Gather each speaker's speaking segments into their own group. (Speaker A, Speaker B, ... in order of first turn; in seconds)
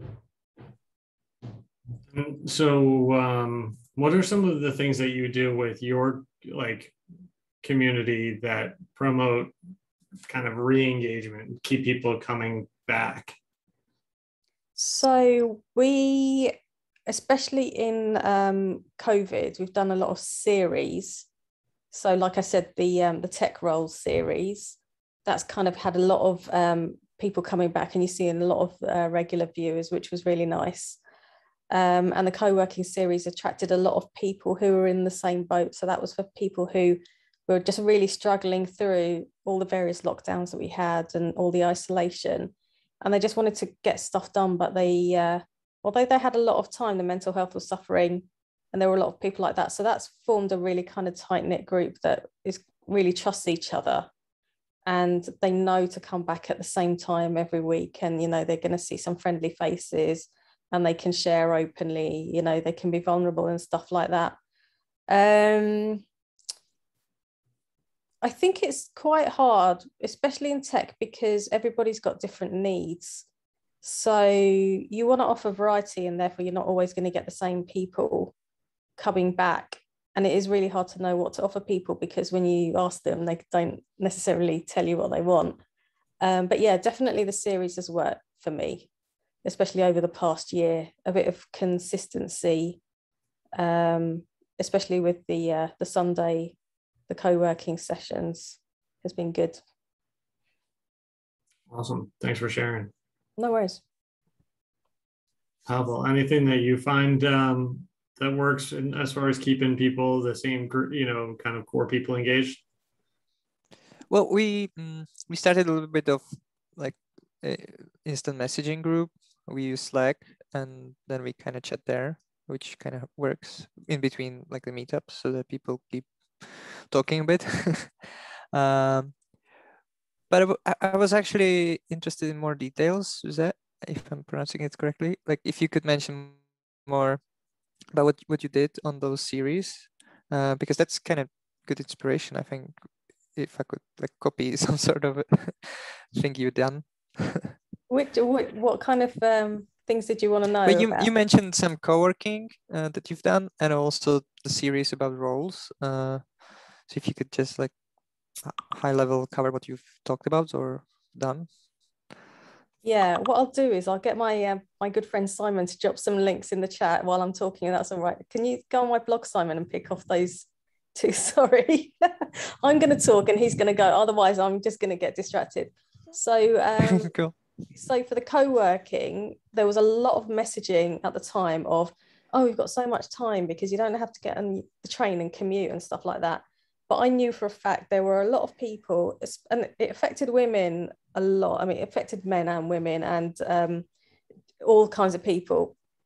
Speaker A: 2.1-7.0, 7.6-9.5, 10.3-13.4, 101.7-102.9, 105.7-112.6
Speaker B: 14.8-16.6, 17.1-21.3, 21.9-31.0, 31.7-54.1, 54.9-64.4, 65.1-66.0, 68.2-73.2, 73.8-78.3, 79.0-85.6, 86.2-88.9, 89.4-92.8, 93.6-96.6, 97.1-99.6, 103.4-103.8, 147.9-151.1, 162.8-177.1, 177.7-193.9, 194.6-195.8
Speaker C: 114.1-129.2, 130.3-137.2, 137.9-142.8, 143.3-147.5, 150.7-156.2, 156.9-157.7, 158.4-161.5, 176.9-177.3